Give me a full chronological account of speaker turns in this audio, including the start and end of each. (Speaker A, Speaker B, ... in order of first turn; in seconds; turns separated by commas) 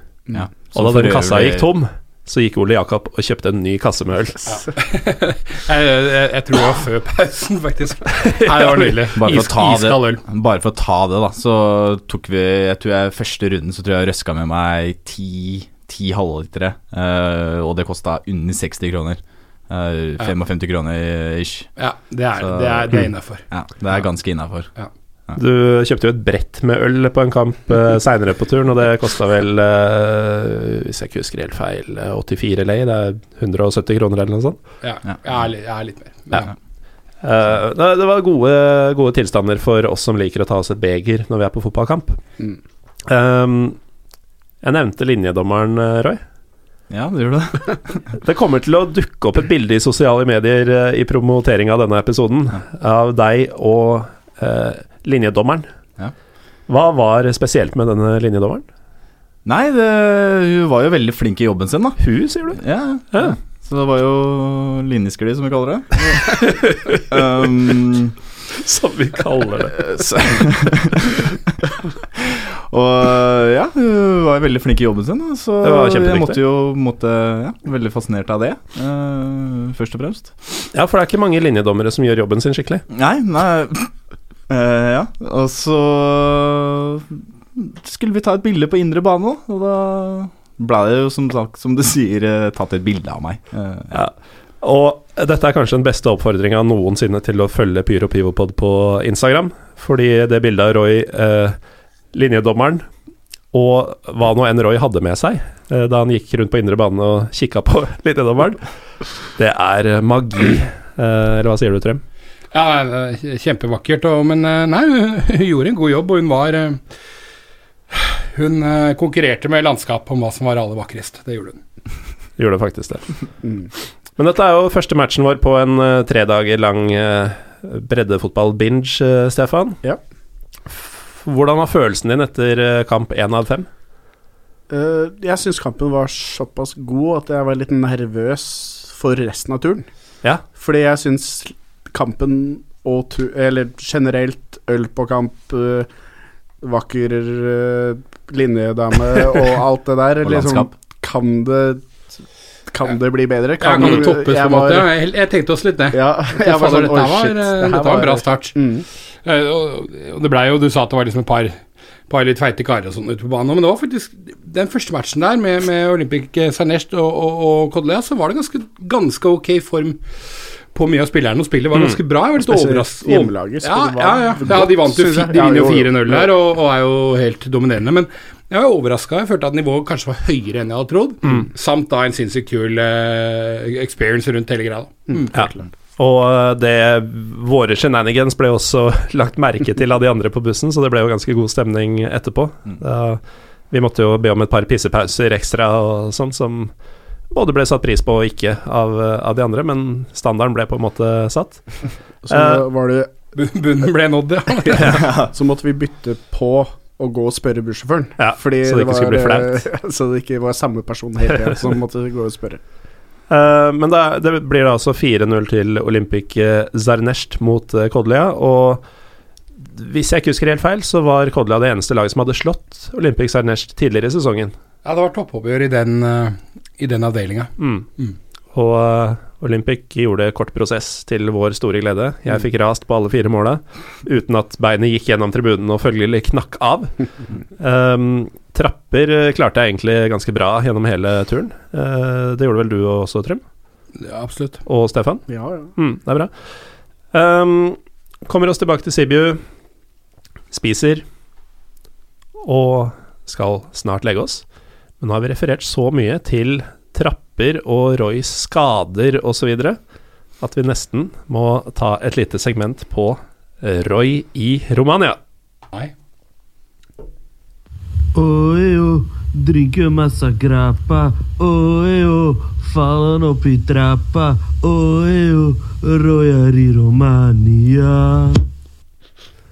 Speaker A: 0.3-1.7, Speaker B: 0.7-4.4, Speaker C: 4.5-10.2, Speaker B: 8.5-8.9, Speaker A: 9.2-21.7, Speaker C: 21.8-23.4, Speaker A: 22.4-24.7, Speaker B: 25.4-34.6, Speaker C: 34.8-36.5, Speaker B: 37.2-42.2, Speaker B: 43.1-43.8, Speaker B: 44.6-46.2, Speaker A: 46.9-48.0, Speaker B: 48.2-55.7, Speaker B: 56.7-58.6, Speaker A: 59.5-66.5, Speaker B: 62.0-63.4, Speaker B: 66.4-67.2, Speaker A: 67.1-68.2, Speaker B: 68.6-69.9, Speaker A: 69.8-71.3, Speaker A: 72.2-80.7, Speaker B: 75.6-76.4, Speaker B: 80.7-82.8, Speaker A: 82.9-83.9, Speaker A: 84.5-94.0, Speaker B: 93.9-101.6, Speaker B: 102.1-102.9, Speaker B: 103.5-108.7, Speaker B: 109.3-112.0, Speaker C: 112.5-116.8, Speaker C: 117.9-121.6, Speaker B: 122.4-123.2, Speaker B: 124.2-129.8, Speaker B: 130.7-133.7, Speaker D: 134.7-139.8, Speaker D: 140.5-145.9, Speaker D: 146.6-152.1, Speaker A: 150.2-150.7, Speaker D: 152.7-154.9, Speaker C: 153.6-158.6, Speaker D: 155.9-158.9, Speaker C: 159.2-170.0, Speaker C: 170.7-185.3, Speaker B: 171.7-172.0, Speaker D: 172.4-176.3, Speaker D: 185.1-185.7, Speaker B: 185.3-196.8, Speaker B: 197.3-202.7, Speaker D: 202.2-203.1, Speaker C: 203.3-204.8, Speaker B: 204.8-205.1, Speaker A: 205.0-205.3, Speaker D: 205.3-212.6, Speaker B: 208.2-209.6, Speaker B: 213.3-218.8, Speaker B: 219.7-224.5, Speaker C: 224.8-228.2, Speaker B: 227.6-227.9, Speaker B: 228.5-237.1, Speaker B: 237.6-243.4, Speaker C: 244.0-244.6, Speaker B: 244.7-246.5, Speaker D: 245.3-245.7, Speaker B: 247.1-249.4, Speaker B: 250.5-251.0, Speaker B: 252.4-254.4, Speaker B: 255.0-259.8, Speaker B: 260.4-265.2, Speaker E: 268.1-278.4